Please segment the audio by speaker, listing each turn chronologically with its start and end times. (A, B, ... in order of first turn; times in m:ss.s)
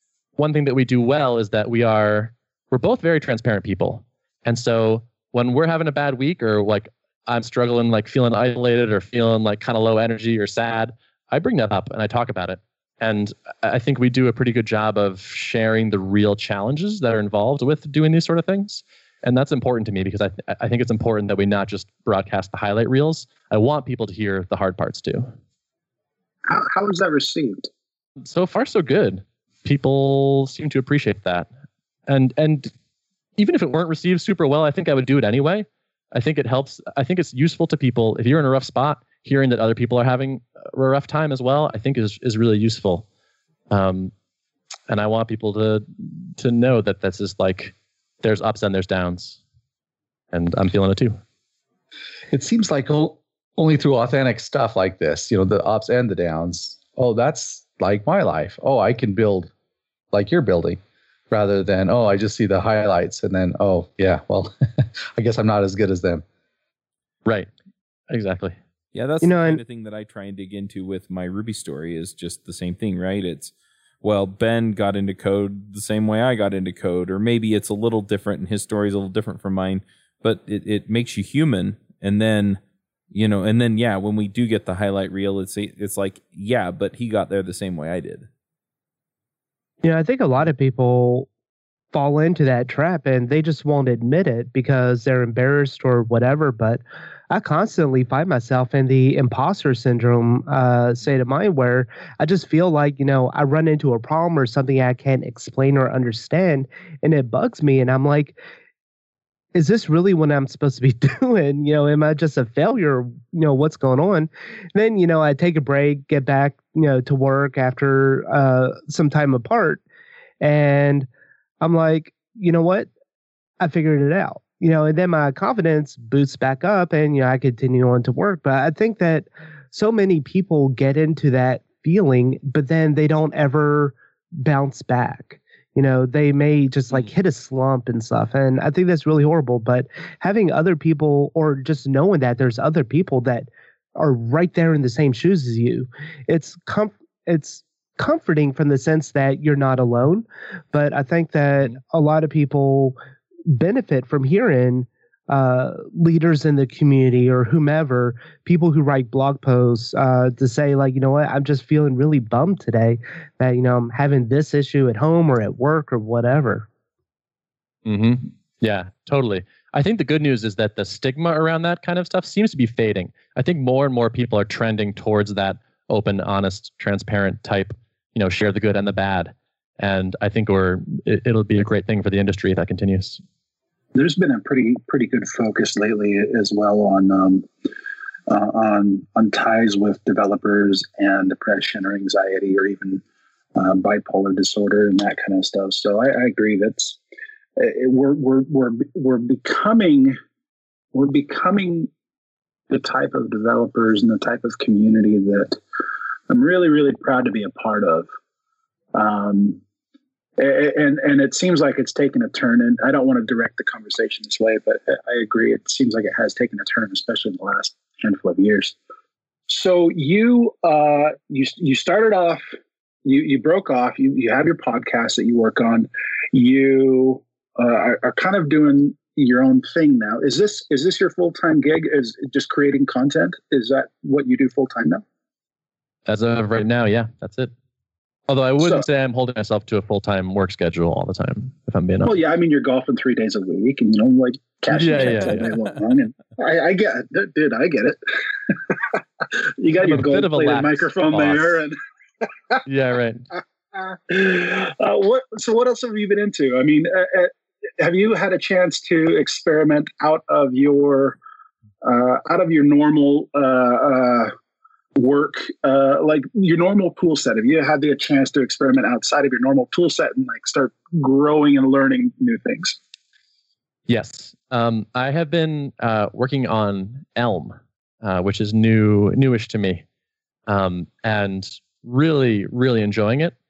0:00.4-0:25.3 A
0:26.5-0:27.7 B
0:28.2-0:31.5 A
0:32.1-0:32.7 A
0:33.4-0:43.0 A
0:43.7-0:44.1 A
0:44.9-0:49.4 A
0:50.3-0:51.2 A
0:52.3-0:59.5 C
1:00.1-1:00.8 C
1:01.3-1:06.2 C
1:08.1-1:08.6 A
1:08.9-1:22.6 D
1:09.2-1:09.6 E
1:23.1-1:28.3 D
1:29.8-1:31.3 E
1:31.9-1:48.4 E
1:49.5-1:59.8 E
2:00.4-2:01.1 E
2:01.6-2:02.9 E
2:03.6-2:33.0 E
2:33.5-2:46.7 E
2:47.9-3:03.2 A
3:04.0-3:07.5 B
3:08.3-3:13.0 B
3:13.6-3:17.0 B
3:17.6-3:20.2 B
3:20.9-3:21.9 B
3:22.7-3:25.6 B
3:26.3-3:28.1 B
3:28.9-3:29.6 B
3:30.4-3:38.8 B
3:39.5-3:55.0 B
3:56.1-3:57.5 A
3:58.3-4:02.2 A
4:02.0-4:11.8 B
4:04.7-4:05.5 A
4:09.8-4:11.6 A
4:12.7-4:13.3 A
4:13.8-4:21.2 B
4:21.8-4:24.3 B
4:25.0-4:32.8 B
4:33.9-4:39.8 A
4:40.5-4:43.4 A